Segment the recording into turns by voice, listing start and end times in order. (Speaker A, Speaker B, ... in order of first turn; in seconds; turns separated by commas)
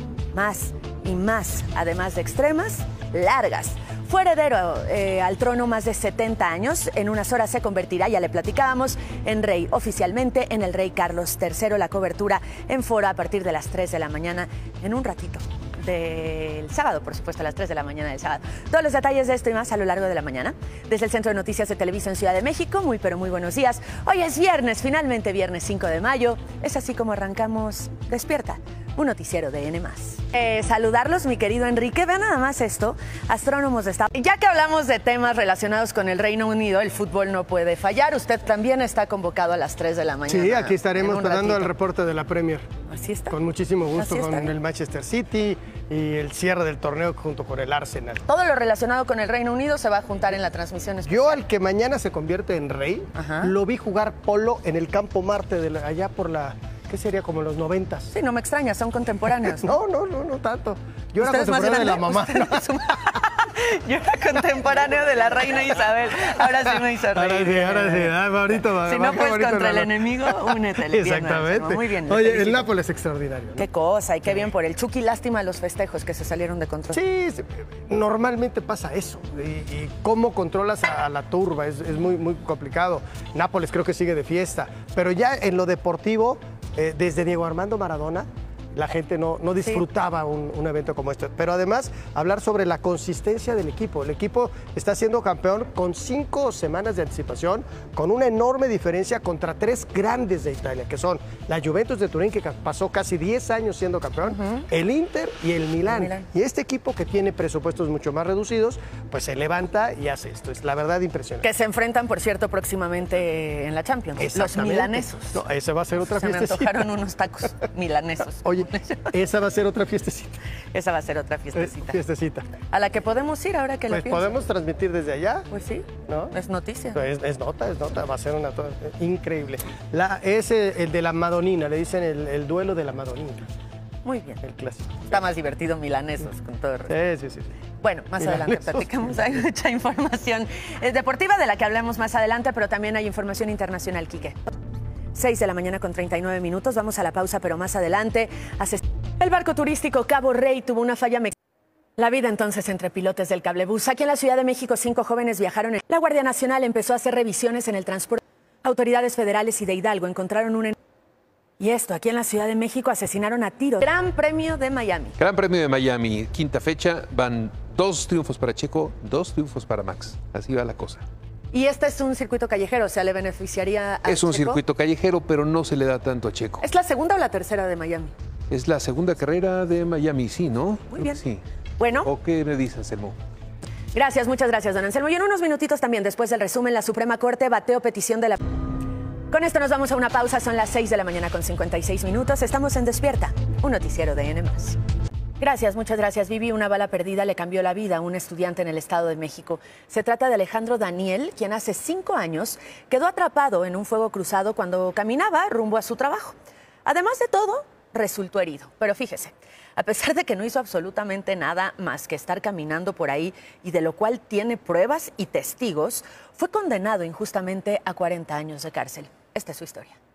Speaker A: 0.3-41.7, Speaker B: 40.3-42.6, Speaker A: 42.9-43.3, Speaker B: 43.3-48.2, Speaker A: 43.9-44.5, Speaker A: 48.2-51.4, Speaker B: 51.0-58.1, Speaker A: 53.1-53.5, Speaker A: 58.1-59.7, Speaker B: 59.6-62.7, Speaker A: 61.2-68.1, Speaker B: 66.6-73.7, Speaker A: 68.8-72.7, Speaker A: 73.6-77.0, Speaker B: 76.9-111.5, Speaker A: 104.3-104.6, Speaker A: 105.9-106.2, Speaker A: 111.4-115.4, Speaker B: 114.2-116.8, Speaker A: 116.1-119.1, Speaker B: 118.4-120.4, Speaker A: 120.7-122.0, Speaker B: 121.5-122.5, Speaker A: 122.7-124.3, Speaker B: 123.9-125.5, Speaker A: 125.5-127.0, Speaker B: 126.1-126.3, Speaker B: 126.9-133.5, Speaker A: 134.0-134.4, Speaker B: 134.4-135.1, Speaker A: 135.0-136.9, Speaker B: 136.9-137.6, Speaker A: 137.8-144.4, Speaker B: 138.2-139.1, Speaker A: 145.1-151.3, Speaker A: 152.0-160.8, Speaker A: 161.6-165.2, Speaker C: 165.2-171.0, Speaker A: 171.5-174.6, Speaker C: 174.1-176.6, Speaker A: 176.6-178.1, Speaker C: 178.5-181.4, Speaker A: 180.9-181.2, Speaker A: 181.8-182.1, Speaker C: 182.0-183.2, Speaker A: 183.9-188.4, Speaker A: 189.3-194.8, Speaker A: 195.4-220.0